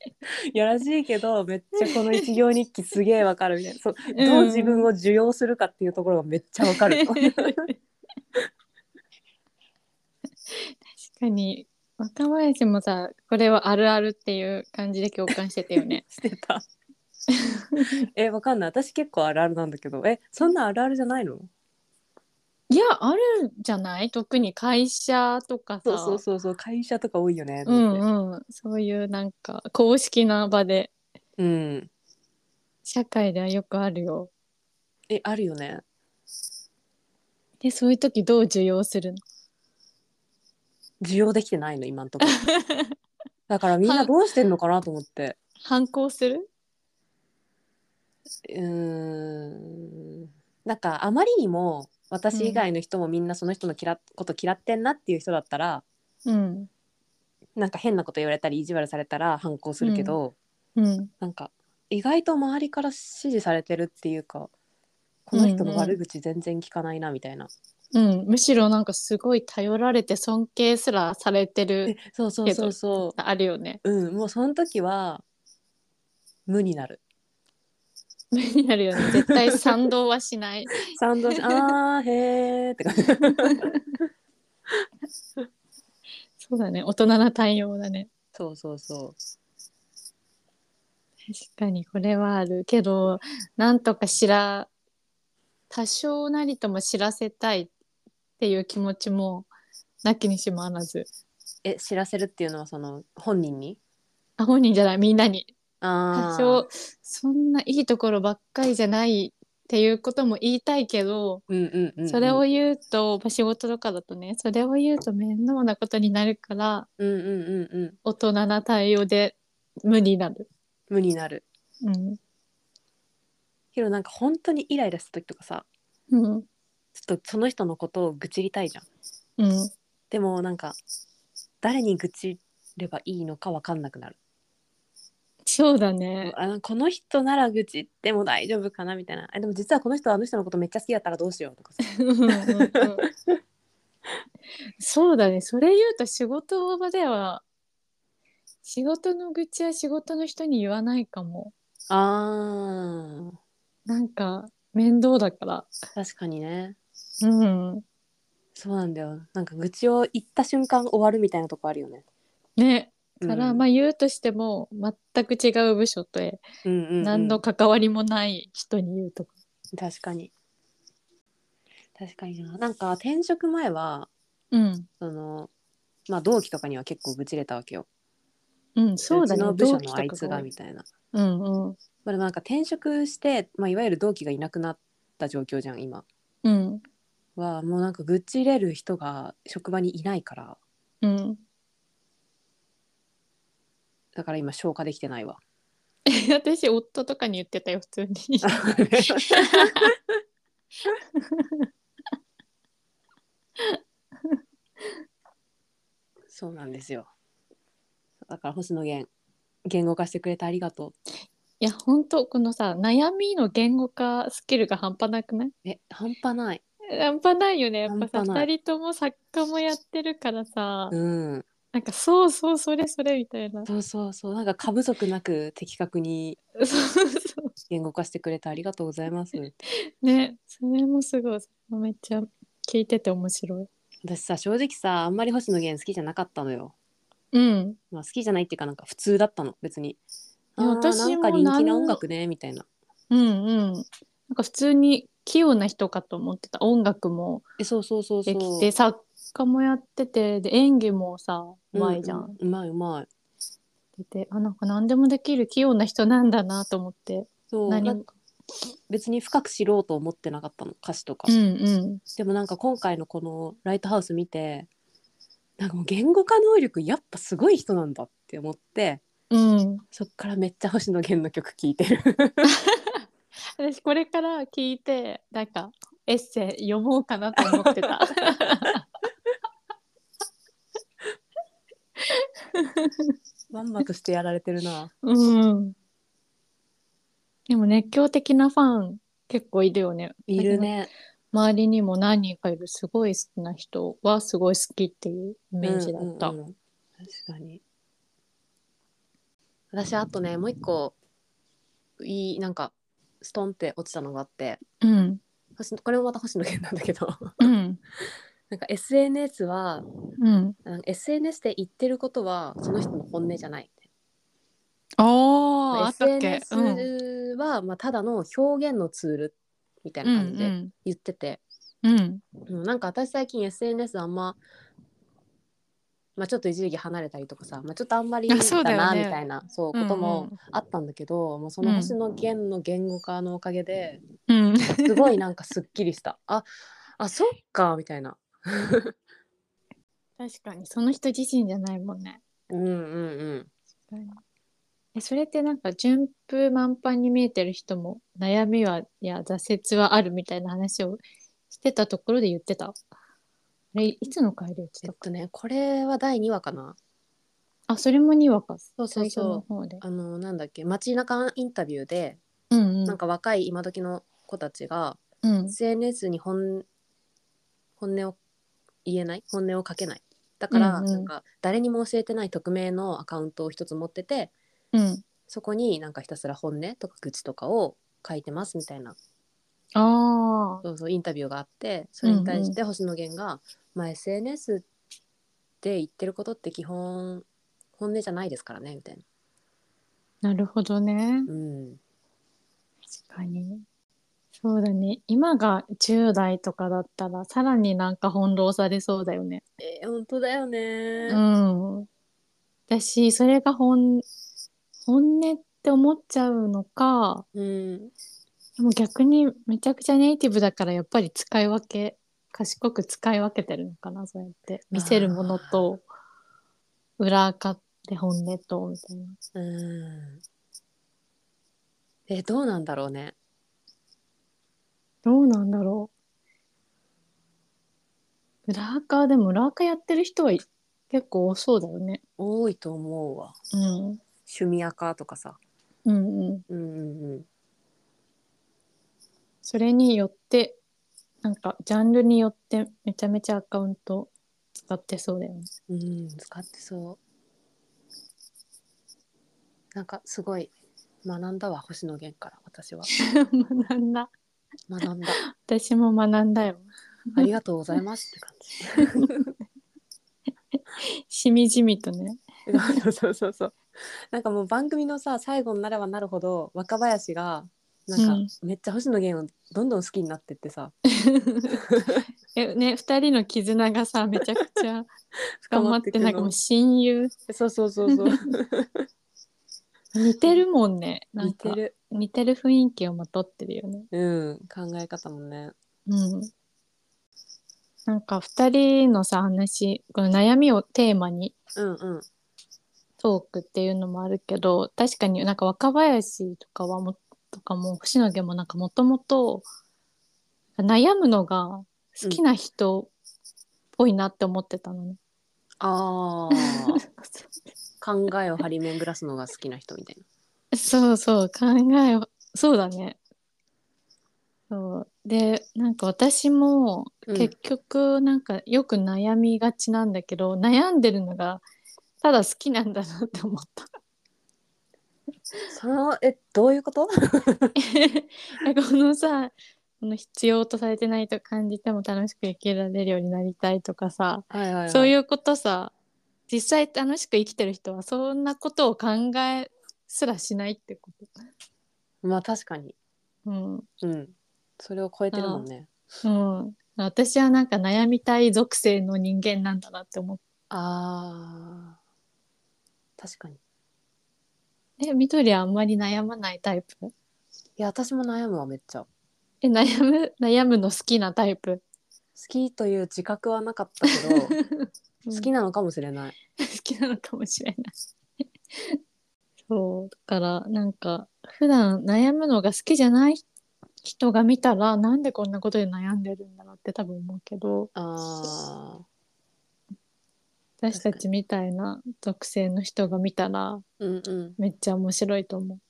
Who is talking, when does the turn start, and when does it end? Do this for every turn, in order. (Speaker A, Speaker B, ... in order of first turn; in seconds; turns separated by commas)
Speaker A: 0.5-7.7, Speaker B: 4.2-4.9, Speaker B: 6.7-7.7, Speaker B: 10.5-16.0, Speaker A: 15.8-16.7, Speaker B: 17.3-18.1, Speaker A: 18.1-21.5, Speaker B: 22.7-26.2, Speaker A: 25.9-28.0, Speaker B: 27.7-30.9, Speaker A: 31.4-31.9, Speaker B: 32.9-34.3, Speaker A: 35.1-35.8, Speaker B: 37.6-39.2, Speaker A: 41.0-42.4, Speaker B: 42.3-43.0, Speaker A: 43.5-45.4, Speaker B: 43.8-44.1, Speaker B: 45.6-46.5, Speaker A: 48.5-55.8, Speaker B: 52.3-52.6, Speaker B: 56.3-56.7, Speaker A: 57.6-60.4, Speaker B: 59.8-60.2, Speaker B: 60.8-61.1, Speaker A: 61.2-64.5, Speaker A: 65.3-67.5, Speaker B: 65.3-66.0, Speaker B: 67.9-73.8, Speaker A: 71.9-73.2, Speaker A: 73.8-75.2, Speaker A: 76.5-77.0, Speaker B: 78.3-81.7, Speaker A: 79.0-79.6, Speaker A: 80.8-83.7, Speaker B: 83.4-83.8, Speaker B: 86.4-88.1, Speaker A: 88.3-89.2, Speaker B: 91.3-94.7, Speaker B: 95.7-97.7, Speaker B: 98.4-99.5, Speaker B: 100.0-101.1, Speaker A: 101.6-103.8, Speaker B: 104.4-105.5, Speaker A: 105.8-106.6, Speaker B: 106.1-111.4, Speaker A: 111.5-112.4, Speaker B: 112.1-116.9, Speaker A: 117.0-118.0, Speaker B: 118.0-120.5, Speaker A: 120.9-121.4, Speaker B: 121.8-122.2, Speaker A: 123.7-125.7, Speaker B: 126.1-126.5, Speaker A: 127.0-128.9, Speaker B: 129.4-129.7, Speaker A: 130.1-130.8, Speaker A: 131.6-134.2, Speaker B: 135.4-136.3, Speaker A: 136.2-143.4, Speaker B: 142.0-143.1, Speaker B: 144.8-147.4, Speaker B: 148.6-151.5, Speaker A: 151.9-153.4, Speaker B: 153.9-155.7, Speaker A: 155.9-156.8, Speaker B: 157.2-157.8, Speaker A: 158.6-162.0, Speaker B: 162.6-166.4, Speaker A: 163.2-163.6, Speaker A: 166.7-167.4, Speaker B: 167.0-169.3, Speaker A: 169.8-170.3, Speaker A: 172.0-174.1, Speaker B: 174.5-174.9, Speaker A: 175.0-175.5, Speaker A: 176.1-177.9, Speaker B: 178.8-180.5, Speaker A: 179.1-180.9, Speaker B: 181.1-181.8, Speaker A: 182.1-186.1, Speaker B: 186.4-186.8, Speaker A: 187.4-190.6, Speaker B: 191.0-191.4, Speaker A: 194.2-195.4, Speaker B: 196.1-199.9, Speaker A: 198.4-199.9, Speaker B: 201.2-201.7, Speaker B: 203.6-205.0, Speaker A: 206.3-207.1, Speaker A: 208.2-209.1, Speaker A: 209.7-210.9, Speaker B: 211.6-215.5, Speaker A: 215.7-216.6, Speaker B: 216.9-220.9, Speaker A: 217.9-218.5, Speaker A: 220.9-221.4, Speaker B: 221.7-223.7, Speaker A: 223.7-226.4, Speaker B: 226.6-227.5, Speaker A: 227.7-229.6, Speaker B: 229.7-233.7, Speaker A: 234.0-236.7, Speaker B: 237.3-237.8, Speaker A: 237.9-240.0, Speaker A: 240.6-242.7, Speaker B: 240.6-242.0, Speaker B: 243.1-247.4, Speaker A: 247.6-248.7, Speaker B: 248.3-252.4, Speaker A: 251.7-253.1, Speaker B: 254.0-258.1, Speaker A: 257.5-258.1, Speaker A: 258.9-261.3, Speaker B: 261.3-262.0, Speaker A: 262.2-264.7, Speaker A: 265.6-269.0, Speaker B: 269.3-269.8, Speaker A: 269.9-272.5, Speaker B: 272.5-273.0, Speaker B: 273.6-278.8, Speaker A: 277.4-278.7, Speaker B: 282.0-283.1, Speaker A: 283.5-284.9, Speaker B: 285.0-285.8, Speaker B: 287.5-290.7, Speaker A: 290.3-290.9, Speaker B: 291.3-296.4, Speaker A: 295.6-297.6, Speaker A: 299.7-300.9, Speaker A: 302.0-304.6, Speaker B: 304.8-305.2, Speaker A: 305.6-307.5, Speaker B: 307.4-307.8, Speaker A: 308.5-309.9, Speaker B: 310.2-310.6, Speaker A: 310.6-313.8, Speaker B: 315.0-316.9, Speaker A: 315.7-321.4, Speaker B: 320.0-320.7, Speaker B: 321.8-322.2, Speaker A: 322.5-324.4, Speaker A: 326.2-334.0, Speaker B: 328.3-329.2, Speaker B: 329.7-330.4, Speaker B: 331.6-331.9, Speaker B: 334.3-335.2, Speaker A: 334.8-336.5, Speaker A: 337.0-338.9, Speaker B: 340.2-342.2, Speaker A: 342.5-343.5, Speaker B: 343.9-344.2, Speaker B: 344.9-352.8, Speaker B: 353.7-355.0, Speaker A: 354.8-356.8, Speaker B: 357.7-359.8, Speaker A: 358.8-362.2, Speaker B: 362.5-363.0, Speaker A: 362.9-366.7, Speaker B: 365.2-365.6, Speaker A: 367.8-368.2, Speaker A: 368.9-374.3, Speaker B: 370.5-371.1, Speaker B: 374.7-375.0, Speaker A: 375.3-379.0, Speaker B: 379.8-380.6, Speaker A: 380.6-384.6, Speaker B: 382.0-382.6, Speaker A: 385.6-387.2, Speaker A: 387.8-389.0, Speaker B: 390.2-391.3, Speaker A: 391.3-391.8, Speaker B: 393.0-393.6, Speaker B: 394.4-399.4, Speaker A: 399.6-401.2, Speaker B: 401.1-401.9, Speaker B: 402.7-404.1, Speaker B: 404.9-407.2, Speaker A: 407.4-407.9, Speaker B: 408.6-415.8, Speaker A: 414.7-415.6, Speaker B: 417.0-419.2, Speaker A: 419.4-420.2, Speaker A: 422.1-423.1, Speaker B: 425.1-425.9, Speaker B: 428.5-432.0, Speaker A: 432.2-433.4, Speaker B: 433.5-434.0, Speaker A: 434.3-435.4, Speaker B: 435.9-436.4, Speaker A: 436.5-437.3, Speaker B: 439.4-440.6, Speaker B: 441.2-445.5, Speaker A: 445.7-447.0, Speaker A: 449.8-450.5, Speaker A: 451.0-452.9, Speaker B: 452.9-454.1, Speaker A: 454.7-455.2, Speaker B: 455.2-457.3, Speaker A: 457.2-459.3, Speaker B: 458.8-459.1, Speaker B: 460.6-462.8, Speaker A: 462.5-463.6, Speaker A: 464.1-470.7, Speaker B: 468.0-468.3, Speaker B: 470.9-471.6, Speaker A: 471.5-472.0, Speaker B: 472.4-474.9, Speaker A: 475.4-476.3, Speaker B: 475.5-477.1, Speaker A: 477.3-478.9, Speaker B: 477.9-478.2, Speaker B: 479.9-483.9, Speaker A: 481.2-481.7, Speaker A: 483.9-485.5, Speaker B: 485.9-486.3, Speaker B: 487.9-491.4, Speaker A: 491.6-492.1, Speaker B: 493.0-499.4, Speaker B: 500.6-502.9, Speaker B: 503.8-505.0, Speaker A: 505.6-506.8, Speaker B: 506.4-507.3, Speaker A: 507.8-510.0, Speaker B: 510.5-513.0, Speaker B: 514.5-521.4, Speaker A: 517.1-517.3, Speaker B: 522.0-523.7, Speaker A: 525.5-527.5, Speaker B: 527.6-535.7, Speaker A: 534.3-535.0, Speaker B: 536.3-541.1, Speaker A: 542.0-542.8, Speaker B: 543.3-543.7, Speaker A: 543.8-545.7, Speaker B: 545.1-545.5, Speaker B: 546.0-550.2, Speaker A: 550.5-551.8, Speaker A: 553.0-553.4, Speaker B: 554.8-556.9, Speaker A: 557.6-558.9, Speaker B: 559.4-561.6, Speaker A: 562.2-564.4, Speaker B: 564.0-565.3, Speaker A: 565.1-566.1, Speaker B: 566.4-567.7, Speaker B: 568.5-568.8, Speaker B: 569.5-573.2, Speaker B: 573.8-577.7, Speaker A: 577.8-578.8, Speaker B: 580.6-583.6, Speaker A: 580.7-581.0, Speaker A: 583.8-584.4, Speaker B: 584.4-585.6